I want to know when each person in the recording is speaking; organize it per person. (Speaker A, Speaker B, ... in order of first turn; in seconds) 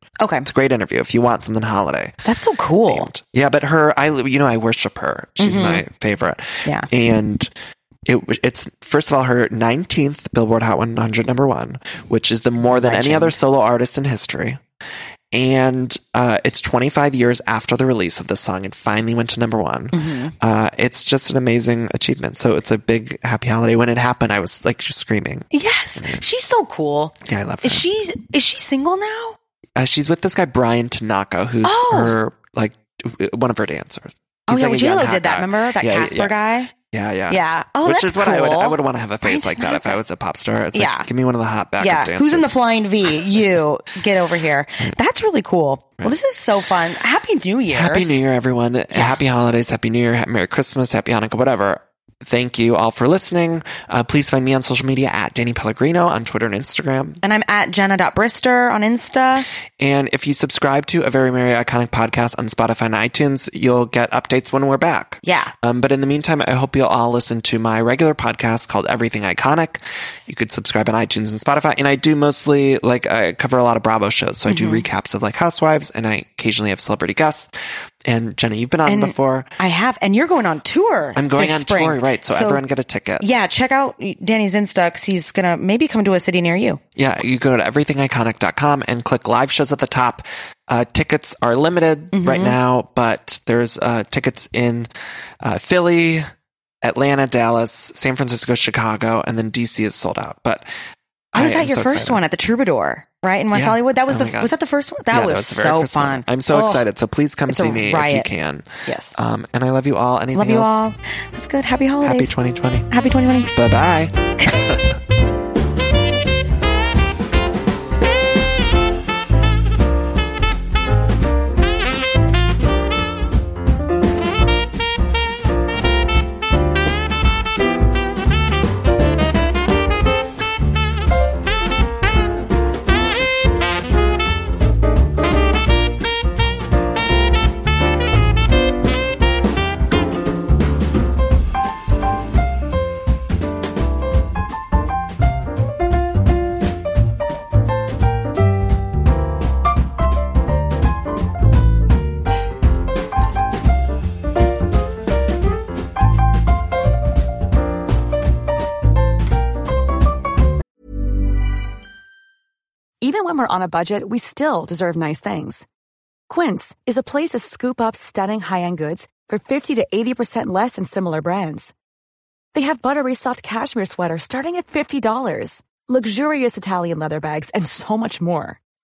Speaker A: 0.2-0.5, 2.2-3.1, 5.4-5.8, 12.6-13.4, 19.9-20.3, 25.5-29.4, 31.6-32.2, 34.5-36.7, 37.3-40.0, 40.7-41.1, 41.8-48.2, 48.9-49.2, 57.2-59.5, 65.2-65.5, 74.5-74.8, 78.8-82.6, 83.2-86.8, 92.1-92.6, 101.3-106.8, 107.5-108.3, 108.8-109.1, 110.3-112.3, 112.9-113.5
Speaker B: 0.4-2.1, 2.9-7.5, 8.1-14.6, 15.3-26.2, 27.2-27.8, 29.8-36.3, 36.9-42.5, 47.7-57.2, 59.8-77.5, 78.0-79.5, 81.1-83.4, 87.0-94.9, 95.4-96.3, 96.8-100.7, 101.3-102.2, 103.5-110.9, 112.0-112.9, 113.5-114.8
Speaker C: 163.0-165.6, 166.3-171.7, 172.5-178.6